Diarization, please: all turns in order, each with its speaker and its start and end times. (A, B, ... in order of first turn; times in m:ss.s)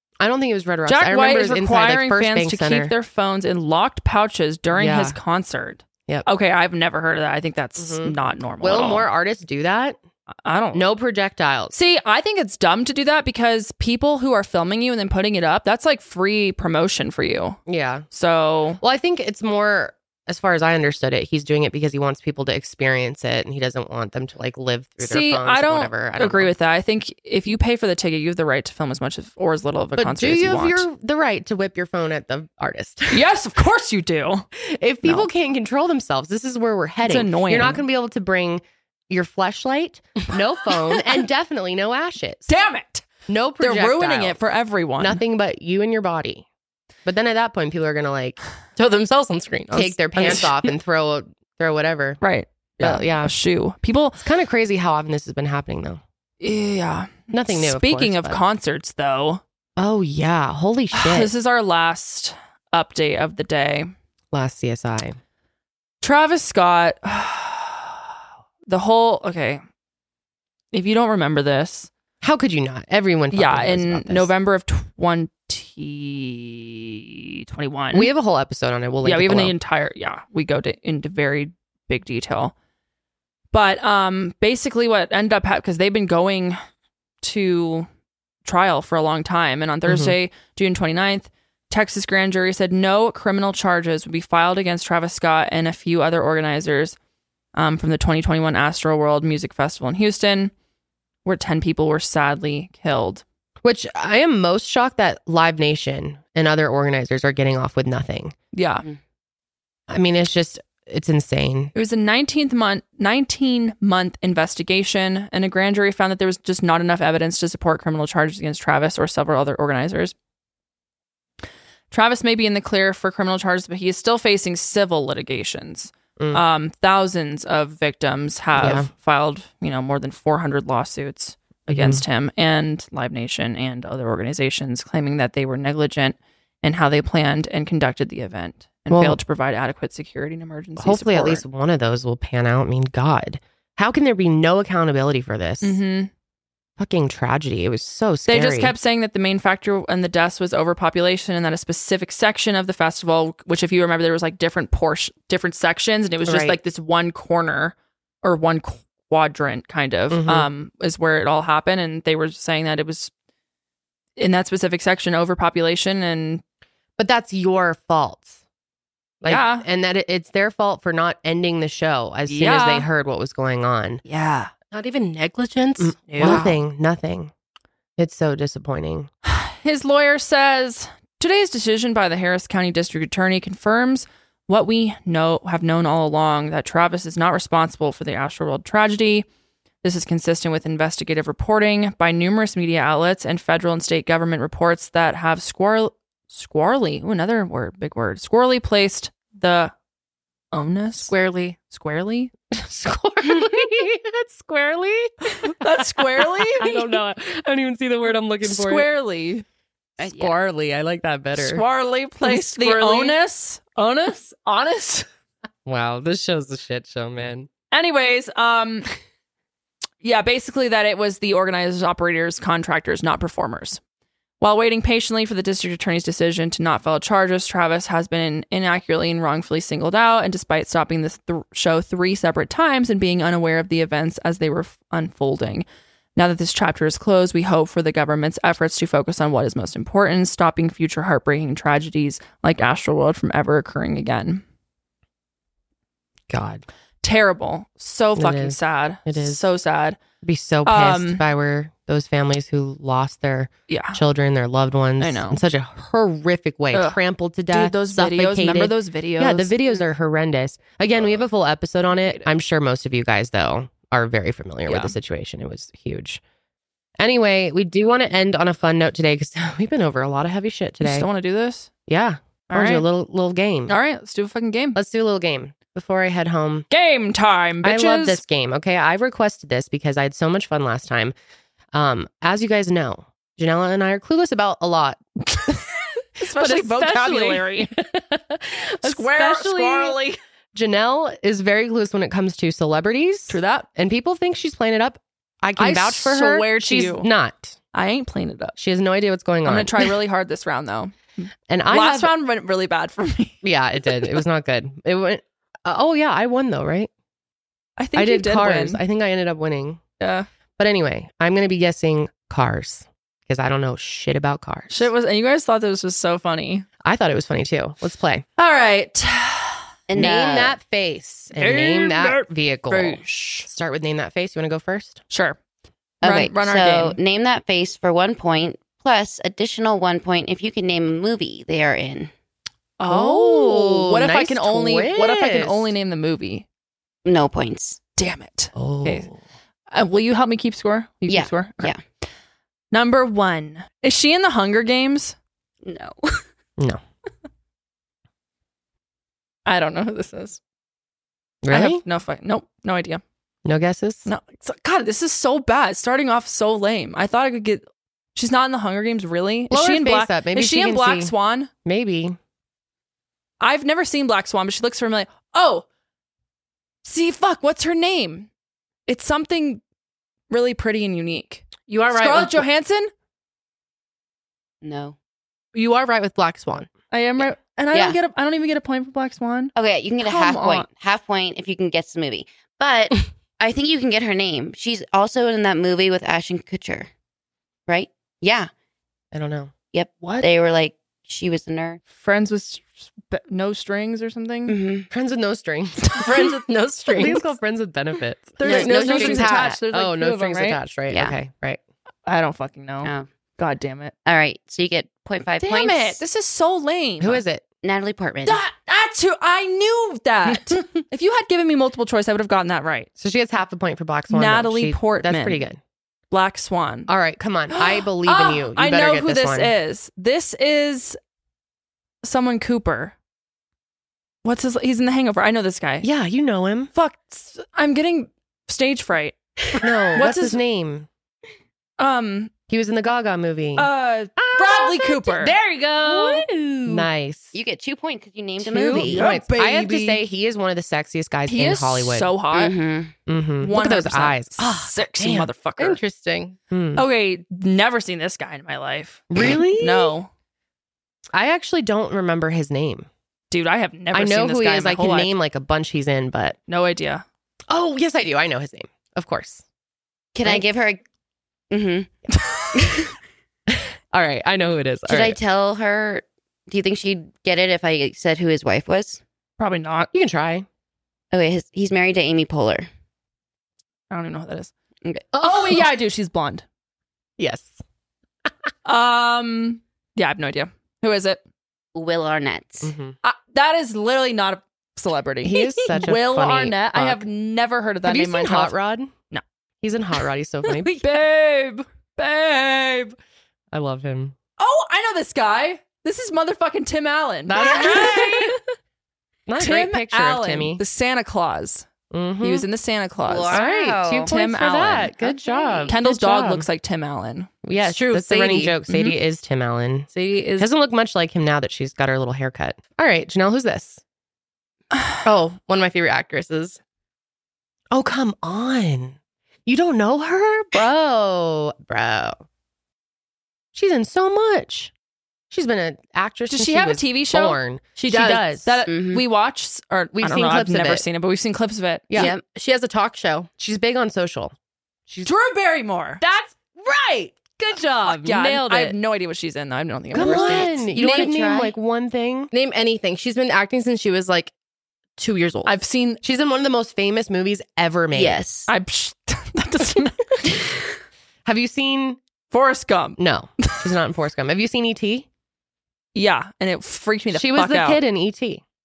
0:00.2-0:02.9 A
0:00.9-0:09.1 B
0:04.7-0:05.2 A
0:07.8-0:10.0 A
0:10.4-0:10.8 B
0:10.7-0:11.7 A
0:11.7-0:18.8 B
0:17.7-0:18.0 A
0:18.8-0:26.5 A
0:25.0-0:30.9 B
0:29.9-0:33.2 A
0:33.1-0:34.4 B
0:34.6-0:42.5 A
0:35.0-0:35.3 B
0:37.0-0:37.8 B
0:42.5-0:43.1 B
0:43.3-0:44.4 A
0:43.6-0:45.2 B
0:45.0-0:46.4 A
0:47.0-0:48.4 A
0:48.8-0:50.4 C
0:49.7-0:52.2 A
0:50.2-0:50.5 B
0:52.2-0:54.2 B
0:52.8-0:53.3 A
0:54.2-0:56.0 A
0:56.4-0:59.4 B
0:57.3-0:58.4 A
0:59.8-1:01.3 A
1:00.9-1:03.9 B
1:04.3-1:05.2 A
1:06.0-1:08.0 B
1:08.7-1:09.6 B
1:10.7-1:11.9 B
1:12.2-1:14.3 A
1:13.3-1:18.1 B
1:17.9-1:19.5 A
1:19.0-1:22.5 B
1:23.5-1:26.6 B
1:27.2-1:27.9 B
1:28.4-1:37.0 B
1:29.8-1:30.1 A
1:37.5-1:40.5 B
1:41.2-1:43.2 B
1:43.6-1:48.3 A
1:48.5-1:48.8 B
1:49.9-1:51.7 A
1:51.7-2:00.1 B
2:01.9-2:21.4 B
2:08.6-2:08.9 A
2:11.7-2:12.0 A
2:18.9-2:19.2 A
2:20.8-2:25.8 A
2:25.6-2:26.1 B
2:26.8-2:28.7 A
2:28.3-2:43.1 B
2:36.2-2:36.6 A
2:40.1-2:40.5 A
2:44.2-2:46.4 B
2:47.0-2:48.4 A
2:49.2-2:54.0 A
2:49.2-2:49.6 B
2:52.3-2:52.9 B
2:54.0-2:54.5 B
2:54.7-2:56.5 C
2:55.8-2:57.3 A
2:56.1-2:56.6 B
2:58.0-2:59.1 A
2:59.2-3:09.2 B
3:09.8-3:19.7 B
3:20.5-3:22.3 B
3:21.1-3:21.4 C
3:22.5-3:28.9 A
3:25.4-3:26.9 B
3:28.4-3:29.4 B
3:30.0-3:30.3 D
3:30.0-3:31.6 A
3:31.4-3:35.1 B
3:32.3-3:32.8 A
3:32.6-3:33.1 C
3:35.6-3:37.5 A
3:37.7-3:38.9 B
3:40.0-3:43.8 B
3:44.4-3:55.6 B
3:56.2-4:04.4 B
4:06.3-4:06.6 A
4:07.0-4:10.0 B
4:08.2-4:09.4 A
4:10.2-4:26.2 A
4:10.6-4:11.2 B
4:13.7-4:14.0 B
4:15.0-4:15.4 B
4:16.7-4:17.0 B
4:17.5-4:19.5 B
4:21.9-4:22.3 B
4:24.7-4:24.9 B
4:27.0-4:31.1 A
4:30.8-4:31.7 B
4:31.9-4:33.7 A
4:32.5-4:32.8 B
4:33.7-4:34.8 B
4:34.8-4:36.6 A
4:36.7-4:38.2 B
4:37.6-4:41.1 A
4:41.7-4:45.6 A
4:46.2-4:47.7 B
4:46.2-4:50.0 A
4:48.8-4:50.2 B
4:50.5-4:57.6 A
4:53.3-4:53.7 B
4:55.6-4:57.1 B
4:57.7-4:58.6 B
4:58.6-4:59.9 A
4:59.4-5:03.4 B
5:01.5-5:02.1 A
5:03.4-5:06.9 A
5:07.8-5:08.8 B
5:07.9-5:09.8 A
5:10.0-5:10.3 B
5:10.6-5:14.9 A
5:14.7-5:16.6 B
5:16.8-5:18.2 A
5:18.4-5:19.7 B
5:19.9-5:20.6 D
5:19.9-5:25.0 A
5:21.3-5:23.5 B
5:25.1-5:25.4 B
5:26.0-5:27.0 B
5:26.0-5:32.1 D
5:32.8-5:36.4 B
5:32.9-5:35.7 A
5:37.0-5:37.8 D
5:38.0-5:39.1 B
5:38.5-5:39.1 A
5:39.7-5:41.7 B
5:41.1-5:41.8 D
5:42.7-5:45.2 B
5:45.6-5:46.2 D
5:49.4-5:50.4 B
5:51.4-5:51.8 A
5:51.5-5:53.0 B
5:53.4-5:54.1 A
5:54.0-6:01.5 B
5:59.5-6:01.1 A
6:01.6-6:02.2 A
6:03.4-6:05.6 B
6:06.8-6:08.3 B
6:08.9-6:09.6 B
6:10.3-6:12.9 B
6:11.6-6:12.4 C
6:14.6-6:15.0 D
6:15.5-6:16.7 C
6:16.9-6:20.7 B
6:17.7-6:18.0 D
6:19.6-6:26.9 D
6:27.7-6:28.5 D
6:29.1-6:29.5 A
6:29.7-6:31.8 D
6:30.0-6:30.3 B
6:31.9-6:34.5 B
6:34.5-6:34.9 D
6:34.9-6:36.0 A
6:36.0-6:36.3 B
6:36.0-6:37.2 C
6:36.9-6:41.6 A
6:38.4-6:40.6 B
6:38.4-6:39.5 D
6:38.5-6:39.1 C
6:40.9-6:41.2 D
6:42.0-6:43.9 B
6:44.0-6:46.0 D
6:45.4-6:47.2 B
6:47.0-6:47.4 A
6:47.6-6:48.4 D
6:48.2-6:52.9 B
6:53.0-6:55.6 A
6:54.1-6:55.4 B
6:56.1-6:56.9 B
6:56.9-6:59.5 A
6:57.5-7:01.0 B
7:02.0-7:02.9 B
7:04.2-7:05.8 B
7:05.8-7:06.7 A
7:06.7-7:09.2 B
7:09.6-7:10.9 A
7:09.9-7:10.4 B
7:11.8-7:12.3 B
7:12.5-7:17.3 A
7:13.6-7:16.8 B
7:17.3-7:19.1 D
7:18.4-7:22.1 A
7:18.7-7:20.0 B
7:21.3-7:22.6 B
7:22.3-7:22.9 D
7:23.1-7:25.3 A
7:23.4-7:25.8 B
7:25.6-7:26.4 C
7:26.5-7:26.8 A
7:26.7-7:30.1 B
7:29.1-7:29.9 A
7:31.1-7:32.9 A
7:33.3-7:35.1 B
7:33.9-7:36.4 A
7:36.5-7:37.0 B
7:37.5-7:39.4 A
7:40.1-7:40.8 D
7:41.5-7:41.9 D
7:42.5-7:42.9 D
7:43.5-7:45.2 A
7:44.9-7:49.0 D
7:49.4-7:49.9 B
7:49.9-7:50.4 A
7:51.1-7:52.7 D
7:53.9-7:54.5 B
7:55.2-7:55.5 A
7:55.2-7:56.4 B
7:57.2-7:57.6 A
7:58.6-8:01.2 B
8:01.7-8:02.7 D
8:02.6-8:03.0 A
8:03.0-8:08.5 B
8:05.2-8:07.0 A
8:07.8-8:08.9 A
8:09.6-8:10.8 A
8:10.5-8:13.0 B
8:13.5-8:14.1 A
8:14.4-8:18.4 B
8:17.3-8:18.4 A
8:19.3-8:20.6 A
8:19.4-8:21.7 B
8:21.9-8:22.4 A
8:22.2-8:23.4 B
8:23.0-8:24.1 D
8:23.3-8:26.4 A
8:24.0-8:24.9 B
8:25.0-8:25.7 D
8:25.7-8:27.4 B
8:27.4-8:33.8 A
8:27.6-8:28.6 C
8:28.7-8:28.9 B
8:29.9-8:30.5 C
8:34.7-8:35.0 B
8:35.0-8:36.6 C
8:37.7-8:42.2 A
8:43.5-8:44.7 A
8:45.3-8:48.5 A
8:46.3-8:47.4 B
8:47.8-8:48.2 C
8:48.3-8:52.1 B
8:48.7-8:49.0 D
8:50.0-8:50.8 A
8:52.0-8:52.2 D
8:52.2-8:53.3 C
8:53.4-8:54.3 A
8:55.0-8:56.0 B
8:56.0-8:58.8 A
8:57.8-9:01.0 B
8:59.9-9:02.3 A
9:00.0-9:01.5 D
9:02.3-9:04.3 C
9:05.0-9:05.5 C
9:05.4-9:06.0 B
9:06.0-9:08.2 A
9:07.9-9:08.5 D
9:08.5-9:10.4 B
9:11.2-9:12.0 A
9:12.3-9:13.7 B
9:13.0-9:15.0 A
9:15.9-9:17.8 B
9:17.1-9:18.4 A